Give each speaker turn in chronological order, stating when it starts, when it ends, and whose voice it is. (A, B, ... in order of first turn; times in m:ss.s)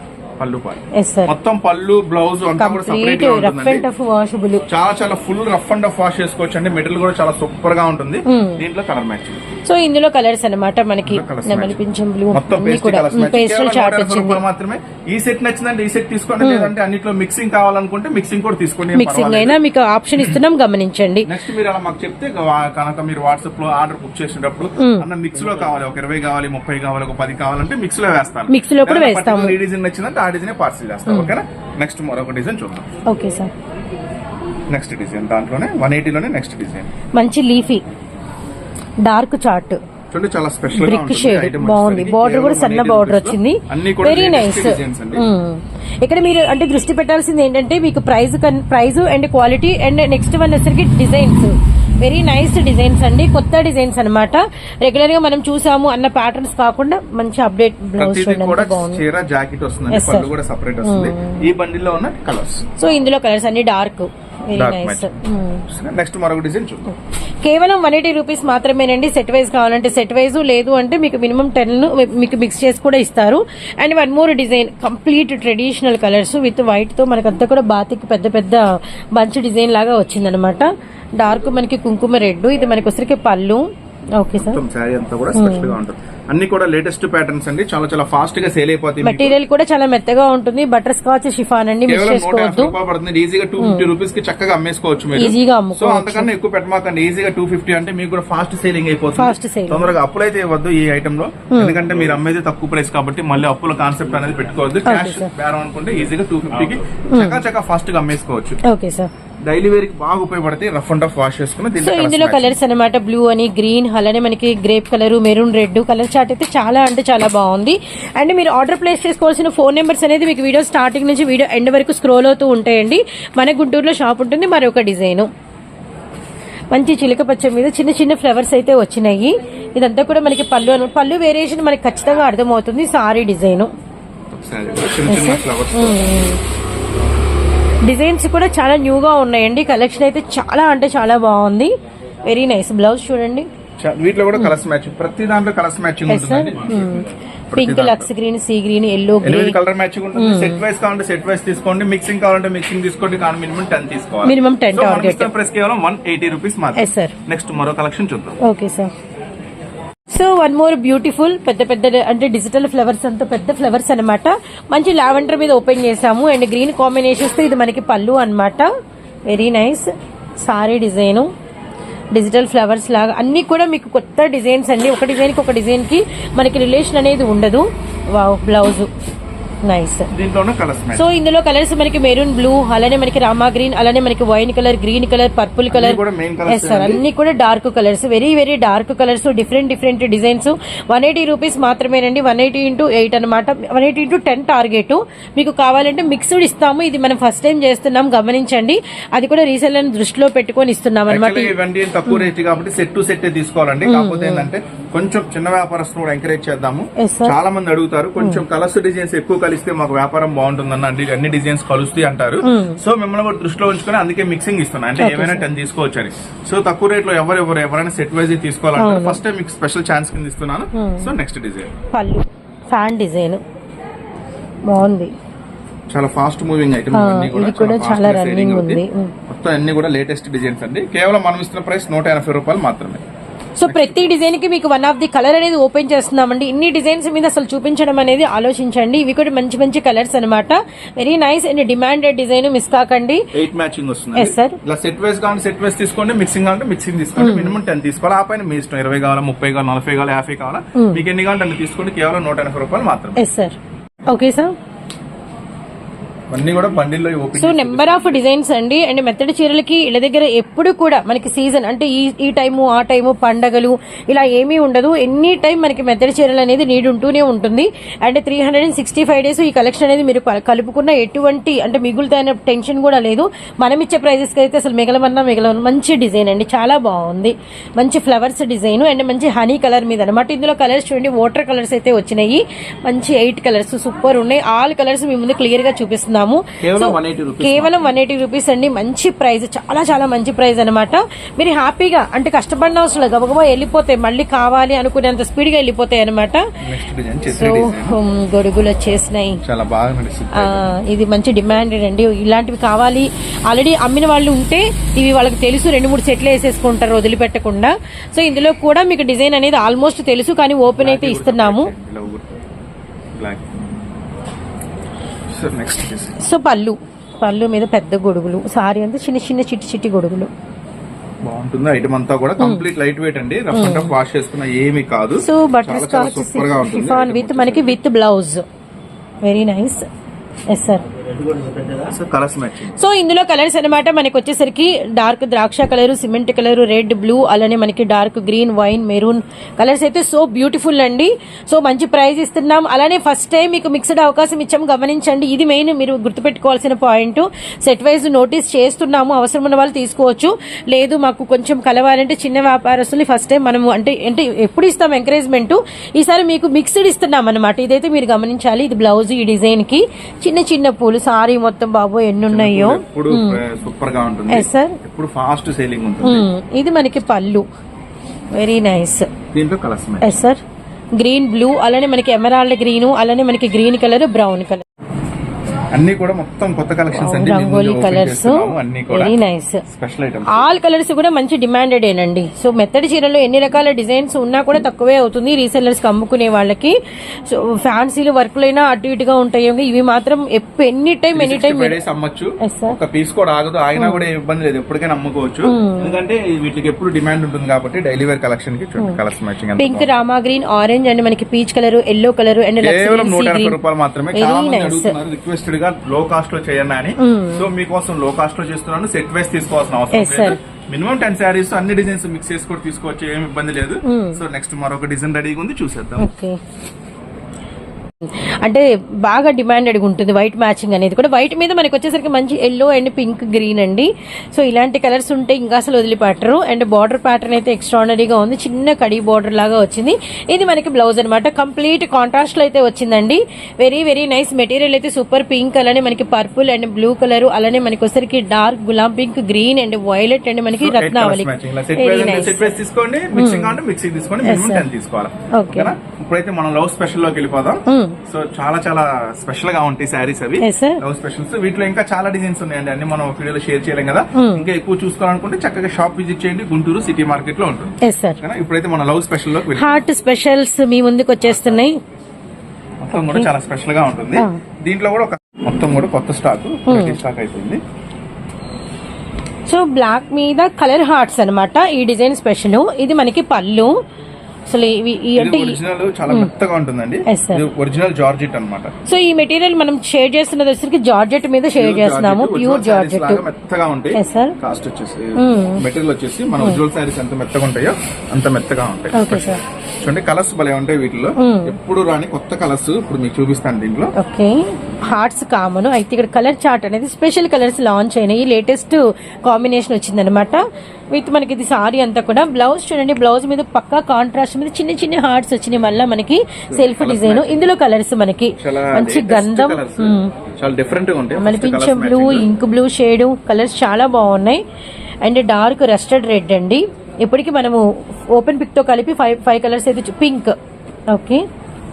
0:00.4-0:03.8 A
0:01.0-0:01.3 B
0:02.6-0:04.6 B
0:04.7-0:09.6 A
0:08.3-0:08.6 B
0:09.7-0:14.4 B
0:11.0-0:11.8 A
0:12.3-0:19.6 A
0:16.4-0:16.7 B
0:18.9-0:21.3 B
0:21.2-0:32.9 A
0:24.8-0:25.1 B
0:28.5-0:29.6 B
0:31.1-0:31.3 B
0:33.1-0:33.5 B
0:34.7-0:36.9 A
0:37.2-0:37.8 B
0:39.0-0:39.8 B
0:40.1-0:45.2 A
0:40.7-0:59.0 B
0:58.0-1:02.6 A
0:59.9-1:00.3 B
1:00.8-1:01.4 B
1:02.8-1:05.6 B
1:04.5-1:05.2 A
1:05.7-1:06.9 A
1:07.4-1:20.7 B
1:21.2-1:23.6 B
1:24.2-1:24.6 B
1:24.3-1:29.4 A
1:25.3-1:25.7 B
1:29.0-1:32.7 B
1:31.9-1:48.6 A
1:33.6-1:33.9 B
1:35.2-1:36.3 B
1:39.2-1:39.9 B
1:41.5-1:41.8 B
1:44.8-1:45.3 B
1:47.1-1:47.4 B
1:48.6-1:49.1 B
1:49.4-1:52.6 A
1:51.8-2:05.3 B
2:06.7-2:13.7 B
2:14.3-2:16.0 A
2:15.0-2:16.4 B
2:17.8-2:21.7 B
2:22.3-2:23.5 B
2:23.8-2:28.1 A
2:26.1-2:29.6 B
2:29.2-2:38.4 A
2:30.1-2:30.6 B
2:34.2-2:35.3 B
2:36.8-2:37.1 B
2:38.4-2:38.9 B
2:40.1-2:48.7 B
2:49.2-2:51.3 B
2:52.1-2:58.9 B
2:59.6-3:00.1 B
3:00.1-3:01.0 A
3:00.9-3:21.5 B
3:05.7-3:07.0 A
3:21.1-3:41.7 A
3:23.8-3:24.5 B
3:27.0-3:27.4 B
3:32.4-3:32.8 B
3:35.0-3:35.4 B
3:38.8-3:39.2 B
3:40.8-3:41.1 B
3:41.9-3:43.4 B
3:44.7-3:45.1 B
3:45.9-3:53.0 A
3:46.9-3:49.1 B
3:53.6-4:03.2 B
3:53.7-3:54.2 A
4:03.3-4:13.2 A
4:04.2-4:04.6 B
4:07.2-4:07.6 B
4:10.8-4:11.0 B
4:13.2-4:13.6 B
4:14.1-4:14.5 B
4:16.3-4:18.2 A
4:17.4-4:56.4 B
4:46.6-4:47.9 A
4:56.6-4:58.0 A
4:57.3-4:59.4 B
4:59.4-5:00.6 A
5:00.3-5:11.7 B
5:10.7-5:12.2 A
5:13.1-5:13.5 A
5:15.3-5:16.2 A
5:16.2-5:20.3 B
5:21.2-5:27.8 A
5:22.4-5:22.7 B
5:23.5-5:23.9 B
5:25.2-5:28.4 B
5:29.2-5:29.8 B
5:30.5-5:30.8 B
5:31.7-5:32.8 A
5:32.7-6:03.4 B
6:02.3-6:06.3 A
6:04.3-6:04.8 B
6:06.0-6:07.4 B
6:08.3-6:09.1 B
6:09.3-6:10.2 A
6:10.0-6:10.4 B
6:11.0-6:14.6 B
6:15.7-6:19.1 A
6:16.9-6:19.6 B
6:19.7-6:20.5 A
6:20.3-6:26.7 B
6:27.3-6:31.8 B
6:31.1-6:39.9 A
6:32.4-6:32.8 B
6:33.8-6:34.0 B
6:35.4-6:35.9 B
6:39.6-6:43.6 B
6:42.6-6:56.1 A
6:44.1-6:44.9 B
6:47.0-6:47.4 B
6:49.9-6:50.4 B
6:53.8-6:54.2 B
6:56.0-6:56.4 B
6:58.1-7:22.6 B
7:20.6-7:39.8 A
7:23.1-7:23.6 B
7:24.2-7:24.6 B
7:25.4-7:25.7 B
7:27.7-7:28.0 B
7:30.4-7:30.8 B
7:34.2-7:34.5 B
7:37.8-7:38.2 B
7:39.5-7:41.7 B
7:42.8-7:47.6 A
7:46.7-7:47.0 B
7:49.5-7:53.7 B
7:54.5-7:56.3 B
7:55.2-7:58.7 A
7:57.1-7:57.4 B
7:58.9-8:03.2 B
8:01.6-8:13.9 A
8:04.0-8:04.4 B
8:05.2-8:05.6 B
8:08.9-8:09.4 B
8:11.2-8:11.5 B
8:14.0-8:30.1 B
8:26.5-8:27.4 A
8:28.4-8:32.3 A
8:31.2-8:34.4 B
8:35.0-8:40.4 B
8:40.9-8:41.2 B